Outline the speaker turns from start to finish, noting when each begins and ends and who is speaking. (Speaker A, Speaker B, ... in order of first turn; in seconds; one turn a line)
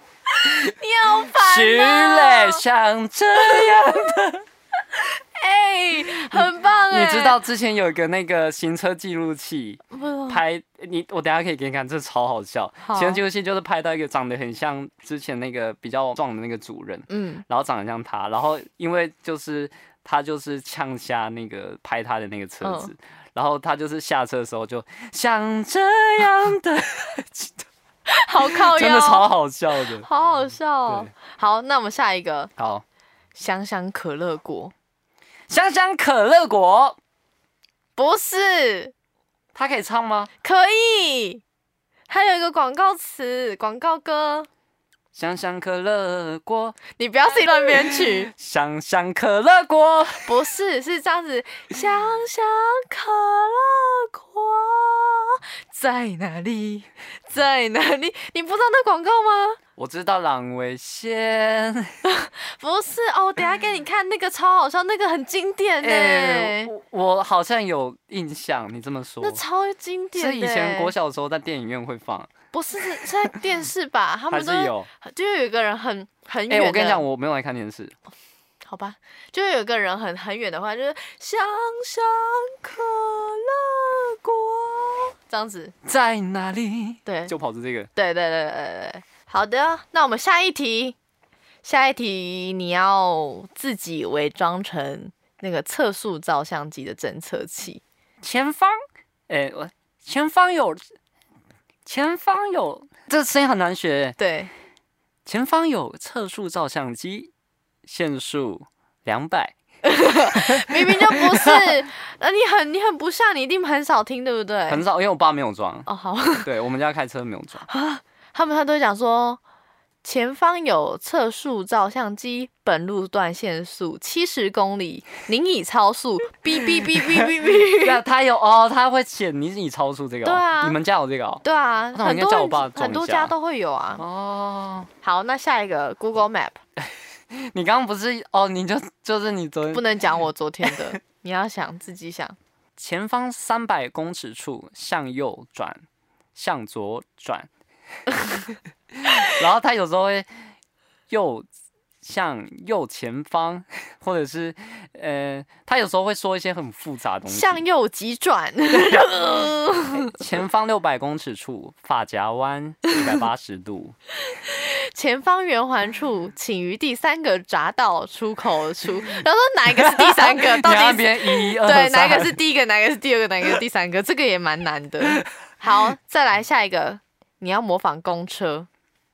Speaker A: 0.3-2.6
Speaker B: 1.3-4.4
Speaker A: 3.5-3.8
Speaker A: 4.9-7.4
Speaker B: 6.3-27.6
Speaker A: 9.9-10.4
Speaker A: 12.8-13.2
Speaker A: 17.1-17.4
Speaker A: 22.6-22.9
Speaker A: 28.1-32.5
Speaker B: 28.4-30.1
Speaker B: 32.6-32.8
Speaker A: 33.3-34.7
Speaker B: 35.5-37.0
Speaker A: 38.0-38.9
Speaker B: 39.5-40.3
Speaker A: 40.4-41.4
Speaker A: 42.1-44.5
Speaker B: 45.1-46.8
Speaker A: 47.0-48.3
Speaker B: 48.0-50.3
Speaker A: 50.2-59.6
Speaker B: 59.8-61.9
Speaker A: 62.0-66.7
Speaker B: 65.8-69.4
Speaker A: 69.2-70.9
Speaker B: 70.1-72.3
Speaker A: 72.5-77.0
Speaker B: 74.3-74.9
Speaker B: 76.5-77.9
Speaker A: 78.6-85.7
Speaker B: 85.8-87.9
Speaker A: 87.0-87.3
Speaker A: 88.0-91.0
Speaker A: 91.6-97.8
Speaker B: 98.2-98.7
Speaker B: 99.3-100.8
Speaker B: 101.8-104.2
Speaker A: 104.2-104.5
Speaker B: 105.2-107.3
Speaker B: 107.8-109.5
Speaker A: 109.8-114.8
Speaker B: 110.3-111.5
Speaker B: 114.7-115.8
Speaker A: 115.8-116.5
Speaker B: 116.4-117.6
Speaker A: 117.7-119.4
Speaker A: 120.0-128.0
Speaker B: 126.9-131.4
Speaker A: 130.2-130.8
Speaker A: 131.4-134.0
Speaker B: 131.9-133.3
Speaker B: 134.0-134.9
Speaker A: 135.0-136.6
Speaker B: 137.3-139.8
Speaker A: 139.7-142.3
Speaker B: 142.8-145.8
Speaker B: 146.3-147.5
Speaker B: 149.0-150.3
Speaker B: 151.1-151.5
Speaker B: 152.0-157.6
Speaker A: 157.2-160.1
Speaker B: 159.9-163.9
Speaker A: 164.3-178.7
Speaker B: 169.7-172.4